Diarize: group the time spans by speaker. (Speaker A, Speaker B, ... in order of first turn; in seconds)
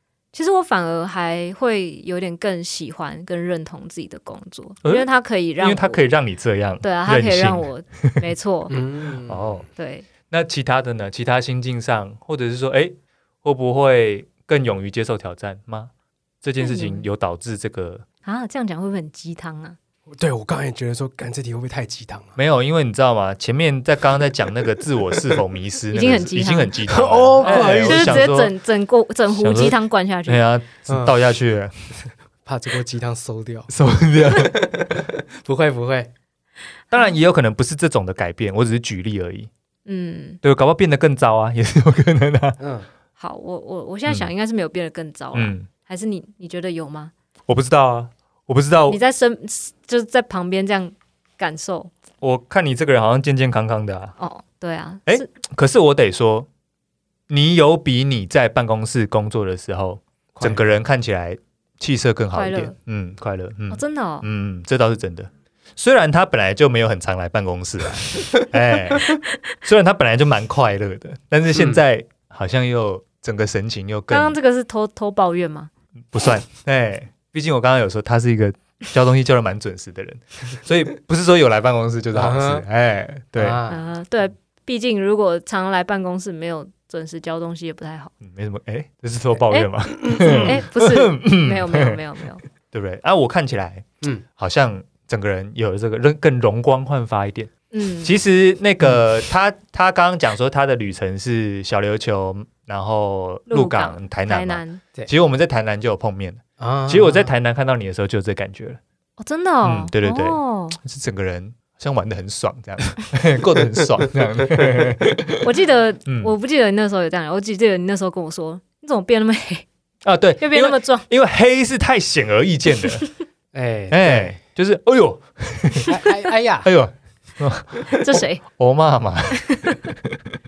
Speaker A: 0.3-6.0, 6.8-8.7, 9.8-10.1, 16.6-17.1, 18.2-19.8, 25.9-26.8, 27.4-30.4, 39.9-40.4, 43.2-47.1, 48.9-51.9, 54.2-55.3, 62.3-62.7, 63.7-64.2, 74.1-75.7, 83.7-88.1, 89.5-92.4, 97.7-98.1, 103.5-104.8, 109.2-110.8, 115.4-119.7, 120.4-121.0, 127.9-128.4, 129.4-129.9
Speaker B: 5.6-8.2, 9.3-9.7, 10.3-15.9, 16.4-18.0, 22.4-28.5, 29.3-31.7, 33.7-34.9, 36.9-39.5, 40.4-42.6, 45.3-45.7, 47.5-49.0, 52.2-54.1, 55.0-56.5, 57.3-74.4, 76.1-83.6, 88.2-92.0, 92.6-97.5, 98.0-108.8, 109.6-115.4, 116.1-116.3, 120.0-123.0, 123.9-126.1, 126.6-130.3
Speaker C: 8.7-9.6, 20.1-22.4, 26.9-28.3, 30.9-31.2, 32.4-36.1, 42.6-42.9, 60.3-60.7, 82.1-82.7, 83.3-83.9, 90.1-90.5, 106.6-107.3, 123.5-124.4, 125.9-126.7